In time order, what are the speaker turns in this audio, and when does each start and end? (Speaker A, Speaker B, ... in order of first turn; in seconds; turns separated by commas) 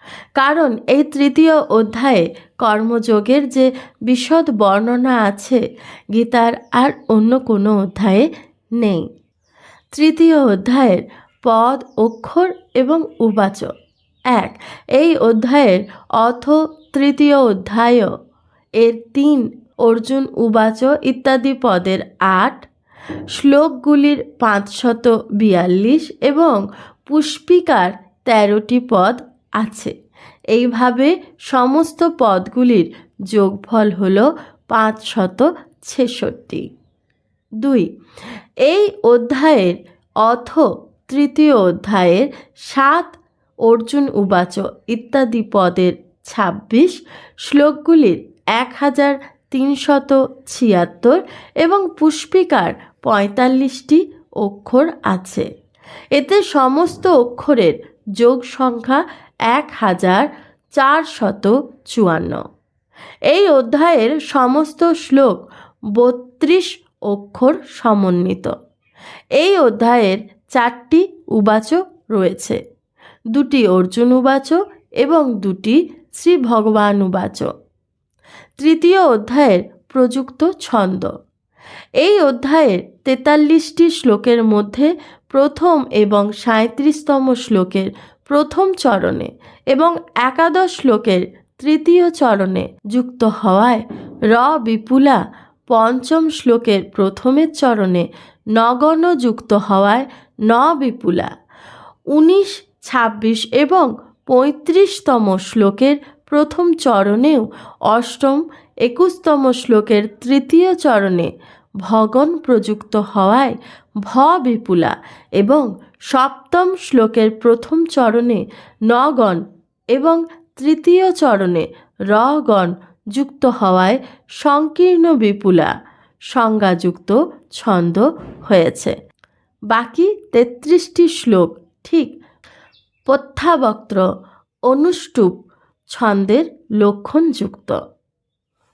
Speaker A: 0.4-5.6, Speaker A: 6.1-8.3, Speaker A: 8.8-9.1, Speaker A: 9.9-13.7, Speaker A: 14.3-18.1, Speaker A: 18.8-22.7, Speaker A: 23.3-29.9, Speaker A: 30.5-36.7, Speaker A: 37.6-37.9, Speaker A: 38.6-55.5, Speaker A: 56.1-62.4, Speaker A: 63.3-65.4, Speaker A: 66.0-68.5, Speaker A: 69.4-72.6, Speaker A: 73.3-77.5, Speaker A: 78.6-81.1, Speaker A: 82.0-101.3, Speaker A: 102.1-111.3, Speaker A: 111.8-119.4, Speaker A: 119.9-125.7, Speaker A: 126.3-128.9, Speaker A: 129.7-132.1, Speaker A: 133.1-134.0, Speaker A: 134.7-135.3, Speaker A: 135.9-137.8